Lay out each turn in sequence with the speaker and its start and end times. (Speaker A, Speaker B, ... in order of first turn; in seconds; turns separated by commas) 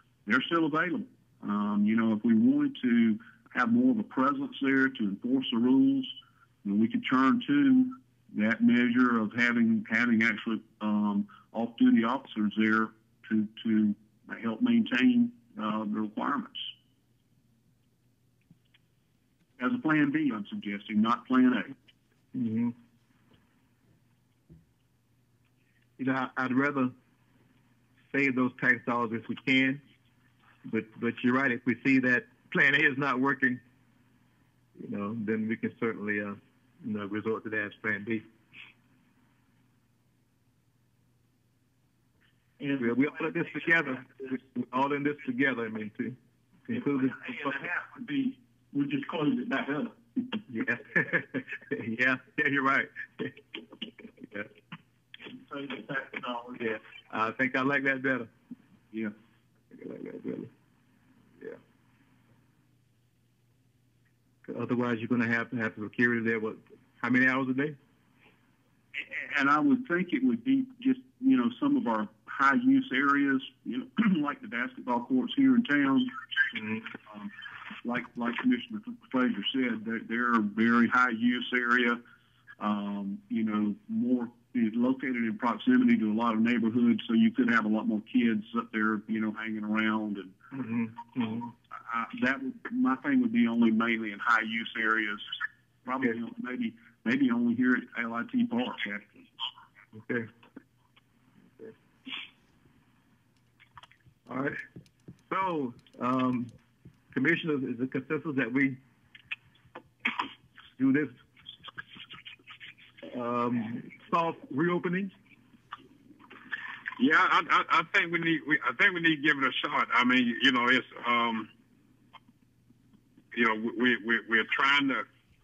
Speaker A: 0.3-16.7, Speaker A: 19.6-21.8, Speaker B: 22.3-22.7, Speaker B: 26.0-26.9, Speaker B: 28.1-29.8, Speaker B: 30.7-33.6, Speaker B: 34.8-38.2, Speaker C: 42.6-44.4, Speaker B: 42.8-46.2, Speaker B: 46.7-47.6, Speaker C: 46.7-50.4, Speaker B: 50.5-54.5, Speaker C: 55.3-56.8, Speaker B: 56.6-58.3, Speaker B: 59.7-60.5, Speaker B: 64.5-67.8, Speaker A: 69.0-76.1, Speaker B: 76.5-76.9, Speaker A: 77.8-82.0, Speaker A: 82.6-90.3, Speaker B: 90.5-91.5, Speaker A: 91.7-95.2, Speaker A: 95.8-99.3, Speaker B: 99.9-100.3, Speaker B: 104.3-104.6, Speaker B: 105.3-106.5, Speaker B: 107.1-108.8, Speaker B: 110.8-111.1, Speaker B: 113.0-115.1, Speaker D: 117.0-121.5, Speaker D: 123.3-125.1